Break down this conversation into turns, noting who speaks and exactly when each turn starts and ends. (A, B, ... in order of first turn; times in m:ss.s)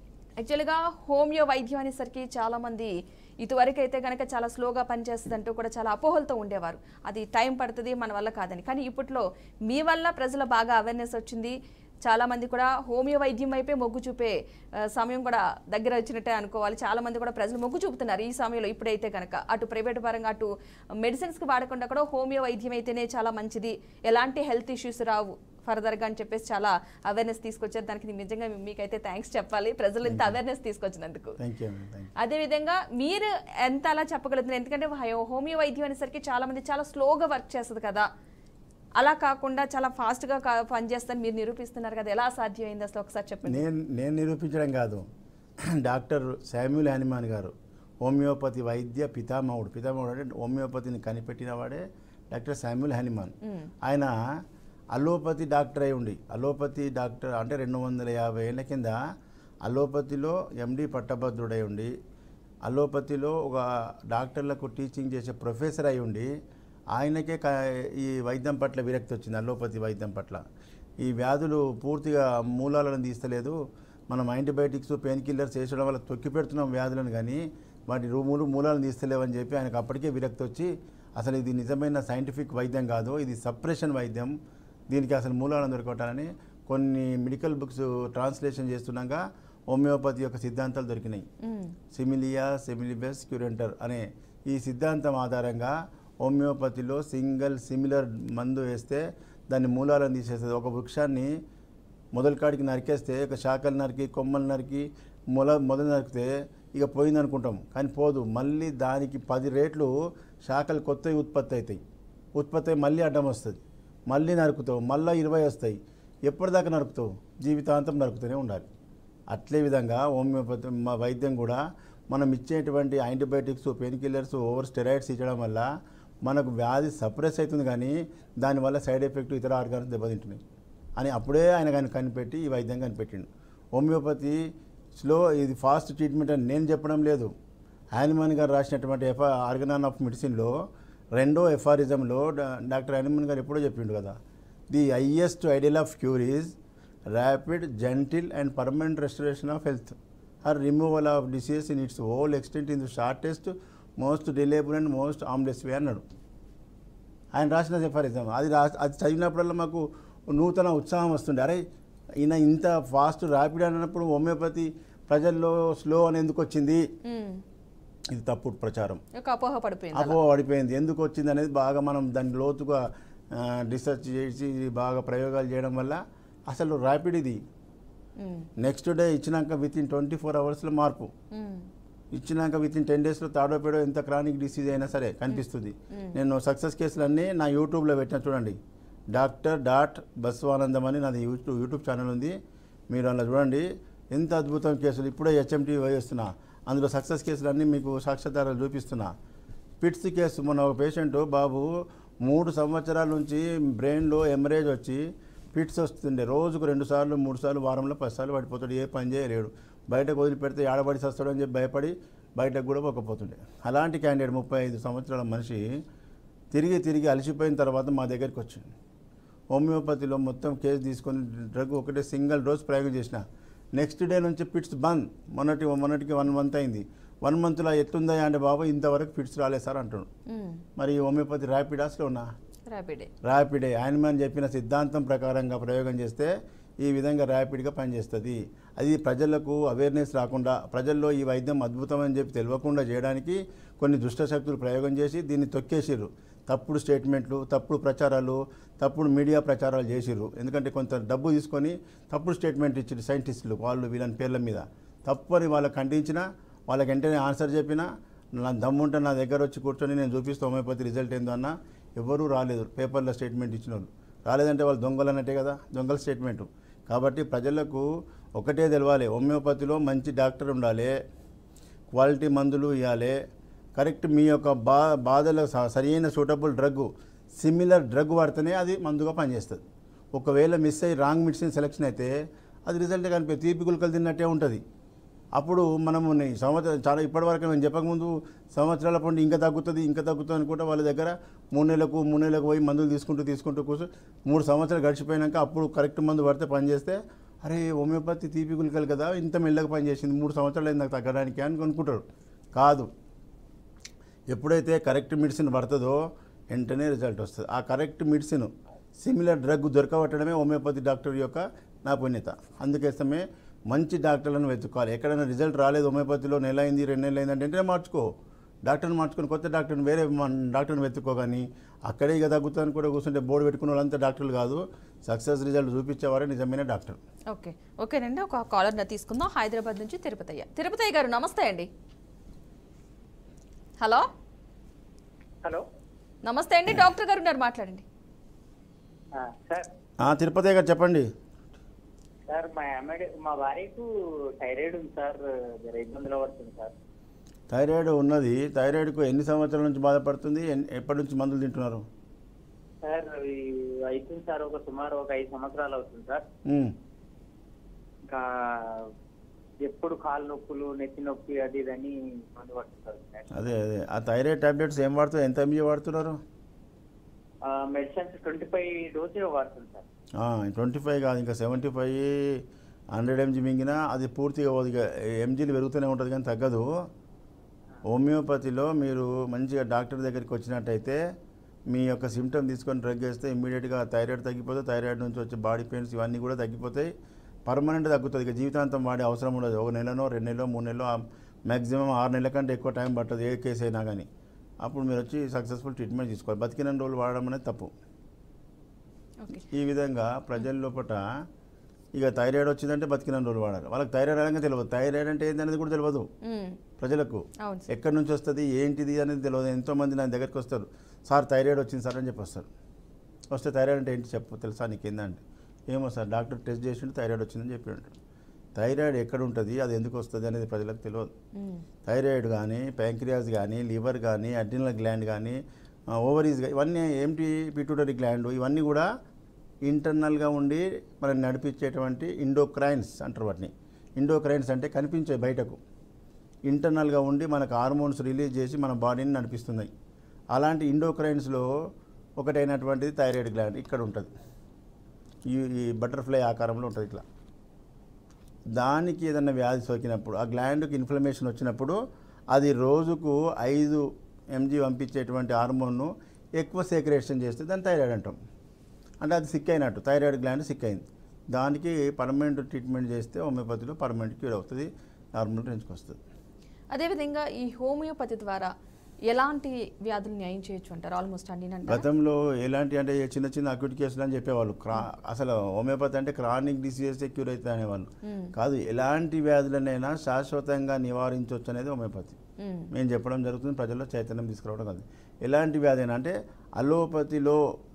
0:00.4-0:14.3 A
0:14.9-0:20.5 A
0:21.0-0:31.4 A
0:30.0-0:30.3 B
0:31.4-0:32.1 B
0:32.2-0:38.1 A
0:39.0-0:43.6 A
0:43.4-0:45.0 B
0:45.7-0:54.1 B
0:53.4-0:53.7 A
0:54.9-0:59.0 B
0:59.6-1:01.9 B
1:02.6-1:06.3 B
1:06.9-1:10.4 B
1:11.0-1:13.6 B
1:14.1-1:24.3 B
1:24.9-1:31.3 B
1:31.4-1:31.7 A
1:31.9-1:41.3 B
1:42.1-1:49.9 B
1:50.4-1:51.8 B
1:52.4-1:58.7 B
1:59.3-2:05.7 B
2:06.2-2:10.4 B
2:11.0-2:14.4 B
2:15.0-2:17.3 B
2:18.0-2:20.5 B
2:21.2-2:24.2 B
2:24.7-2:26.6 B
2:27.1-2:36.0 B
2:37.3-2:41.6 B
2:42.2-2:46.8 B
2:47.0-2:47.4 A
2:48.1-2:49.0 B
2:49.2-2:50.2 A
2:49.9-2:57.4 B
2:58.2-2:58.5 A
2:58.6-3:01.1 B
3:01.3-3:01.7 A
3:02.1-3:08.6 B
3:05.3-3:06.2 A
3:09.1-3:12.3 B
3:12.9-3:19.1 B
3:19.8-3:21.7 B
3:22.2-3:35.6 B
3:36.5-3:38.7 B
3:39.5-3:43.2 B
3:43.7-3:50.1 B
3:50.3-3:50.6 A
3:50.8-3:52.3 B
3:52.7-3:53.1 A
3:53.2-3:56.3 B
3:56.8-4:17.9 B
4:18.4-4:27.8 B
4:28.4-4:30.9 B
4:31.9-4:33.2 B
4:33.8-4:39.6 B
4:40.1-4:42.1 B
4:42.7-4:44.6 B
4:45.4-5:02.9 B
5:04.3-5:06.0 B
5:06.5-5:18.1 B
5:18.6-5:27.0 B
5:27.3-5:31.7 A
5:33.8-5:34.0 A
5:36.2-5:37.8 A
5:39.1-5:39.7 C
5:40.0-5:41.1 B
5:42.3-5:43.9 C
5:44.4-5:46.7 C
5:47.5-5:51.8 B
5:52.8-5:56.2 C
5:56.5-5:56.7 B
5:59.6-6:03.4 C
6:03.3-6:06.2 B
6:07.4-6:09.8 C
6:10.2-6:16.6 B
6:17.9-6:21.0 B
6:21.7-6:26.9 B
6:27.5-6:34.1 B
6:34.6-6:37.7 B
6:39.5-6:41.0 B
6:41.9-6:46.1 B
6:46.2-6:46.6 A
6:46.8-6:52.5 B
6:47.4-6:47.7 A
6:53.3-6:57.9 B
6:58.6-7:01.1 B
7:01.4-7:01.6 A
7:01.8-7:05.4 B
7:05.9-7:08.9 B
7:09.6-7:15.6 B
7:16.5-7:19.7 B
7:20.3-7:21.5 B
7:22.2-7:24.1 B
7:25.3-7:27.0 B
7:28.6-7:31.8 B
7:32.3-7:38.2 B
7:39.0-7:46.0 B
7:46.7-7:48.5 A
7:49.1-7:51.8 A
7:51.7-8:02.2 B
7:58.0-7:58.3 A
8:02.4-8:02.7 A
8:02.7-8:07.4 B